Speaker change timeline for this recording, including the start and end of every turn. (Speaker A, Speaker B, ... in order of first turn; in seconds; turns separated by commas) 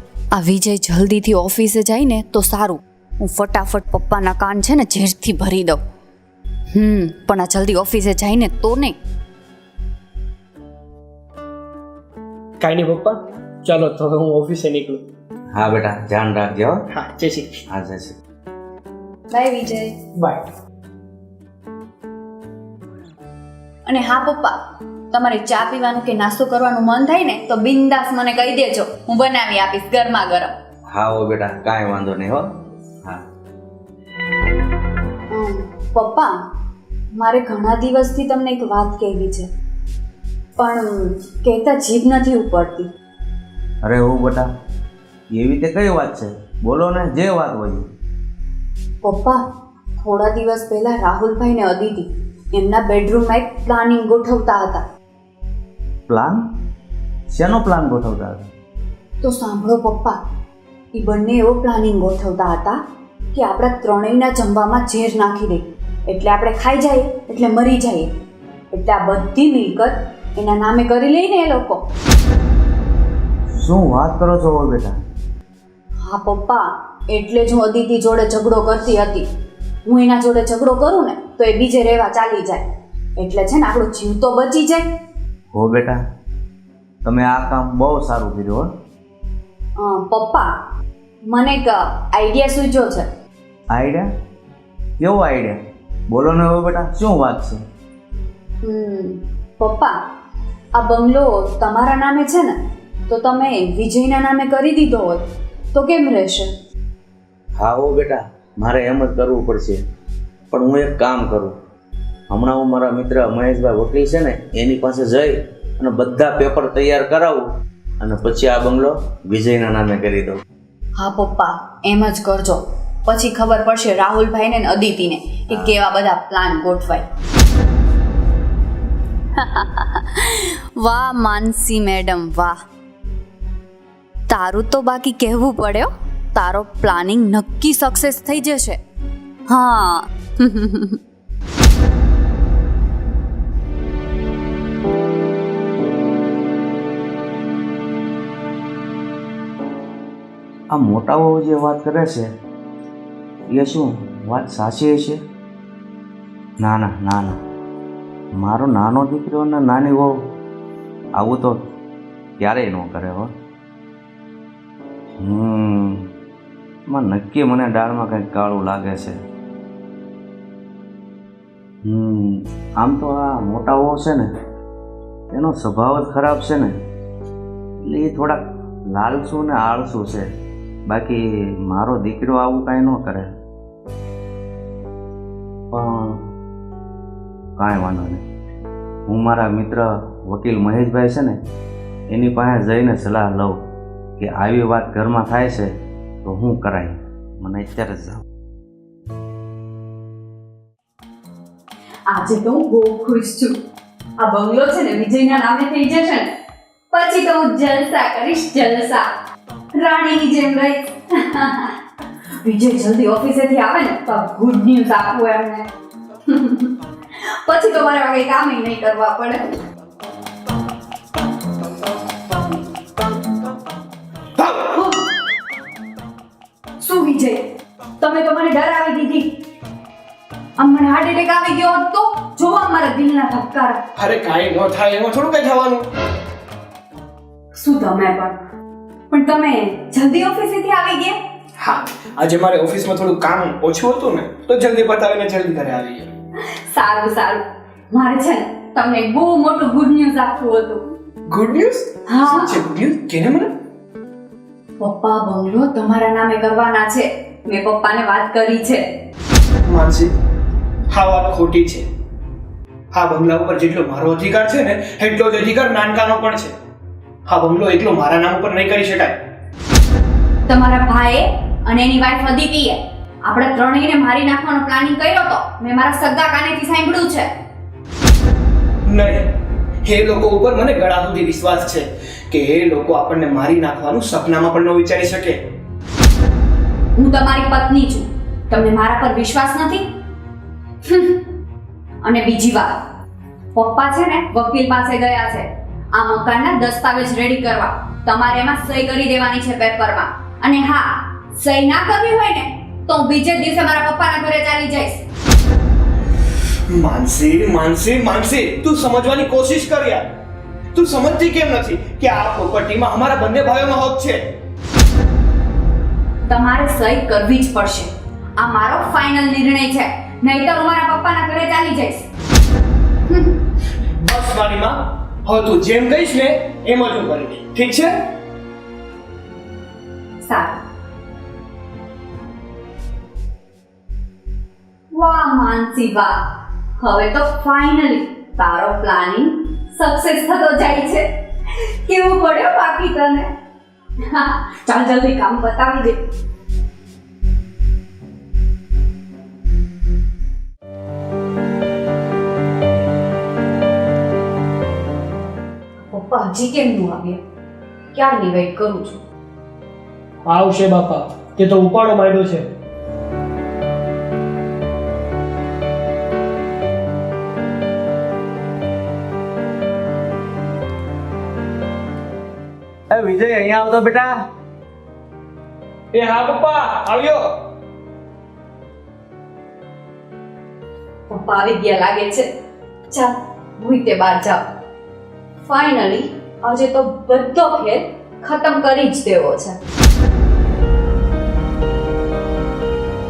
Speaker A: 0.3-5.8, Speaker A: 6.7-9.0, Speaker B: 12.6-15.0, Speaker C: 15.5-16.8, Speaker B: 16.9-17.6, Speaker C: 17.7-18.2, Speaker A: 19.3-19.9, Speaker B: 20.2-20.5, Speaker A: 23.9-24.6, Speaker A: 25.1-30.6, Speaker C: 30.9-32.5, Speaker A: 35.3-36.4, Speaker A: 37.2-39.5, Speaker A: 40.6-42.9, Speaker C: 43.9-44.5, Speaker C: 45.3-47.9, Speaker A: 49.0-49.4, Speaker A: 50.0-54.8, Speaker C: 56.1-56.4, Speaker C: 57.3-58.5, Speaker A: 59.2-60.2, Speaker A: 60.9-62.8, Speaker A: 63.3-68.1, Speaker A: 68.7-71.8, Speaker C: 73.5-75.0, Speaker A: 76.0-79.3, Speaker A: 79.9-82.7, Speaker A: 83.2-84.9, Speaker C: 85.5-86.0, Speaker C: 87.0-88.7, Speaker A: 89.8-90.5, Speaker A: 91.3-93.1, Speaker C: 93.7-94.1, Speaker C: 95.0-95.6, Speaker C: 96.1-97.6, Speaker A: 98.6-100.0, Speaker A: 100.8-106.5, Speaker C: 107.6-109.8, Speaker C: 110.5-111.6, Speaker C: 112.3-117.4, Speaker C: 118.0-120.4, Speaker A: 121.0-127.1, Speaker C: 125.5-125.8, Speaker A: 129.4-132.6, Speaker A: 134.3-138.8, Speaker A: 139.5-141.0, Speaker C: 150.7-152.3, Speaker C: 153.5-155.2, Speaker C: 156.6-157.4, Speaker C: 158.4-160.1, Speaker C: 161.2-161.6, Speaker C: 162.4-163.3, Speaker C: 165.2-166.1, Speaker C: 166.9-169.2, Speaker C: 171.9-174.3, Speaker C: 175.3-176.7, Speaker C: 177.8-178.4, Speaker C: 178.9-180.3, Speaker C: 180.9-183.3, Speaker C: 185.7-186.2, Speaker C: 187.6-188.2, Speaker C: 189.1-191.4, Speaker C: 192.1-193.6, Speaker C: 194.2-195.7, Speaker C: 196.2-198.2, Speaker A: 202.1-203.5, Speaker A: 204.2-206.3, Speaker A: 206.9-209.1, Speaker A: 209.8-211.7, Speaker A: 212.4-215.7, Speaker A: 216.3-219.6, Speaker B: 224.4-224.7, Speaker A: 224.7-225.1, Speaker A: 226.8-227.5, Speaker A: 228.0-229.3, Speaker A: 230.6-233.8, Speaker B: 233.9-235.9, Speaker A: 237.6-238.4, Speaker A: 239.1-241.2, Speaker B: 241.6-246.1, Speaker A: 246.7-250.9, Speaker B: 251.3-253.5, Speaker A: 252.1-252.6, Speaker A: 254.8-258.9, Speaker B: 259.7-260.1, Speaker B: 260.9-261.9, Speaker B: 262.9-266.6, Speaker B: 267.3-269.2, Speaker A: 270.5-277.3, Speaker B: 278.9-285.4, Speaker A: 287.0-289.9, Speaker A: 290.8-291.3, Speaker A: 292.0-292.9, Speaker A: 293.6-305.0, Speaker B: 306.7-310.1, Speaker B: 310.7-314.2, Speaker A: 316.3-322.1, Speaker A: 323.1-323.4, Speaker B: 324.0-328.0, Speaker A: 330.2-330.6, Speaker A: 334.9-341.1, Speaker A: 341.8-343.3, Speaker A: 344.1-346.0, Speaker A: 355.9-357.2, Speaker A: 357.9-359.0, Speaker B: 360.3-362.5, Speaker C: 372.9-374.2, Speaker B: 375.9-377.4, Speaker A: 381.1-382.3, Speaker A: 382.9-384.4, Speaker A: 385.4-389.6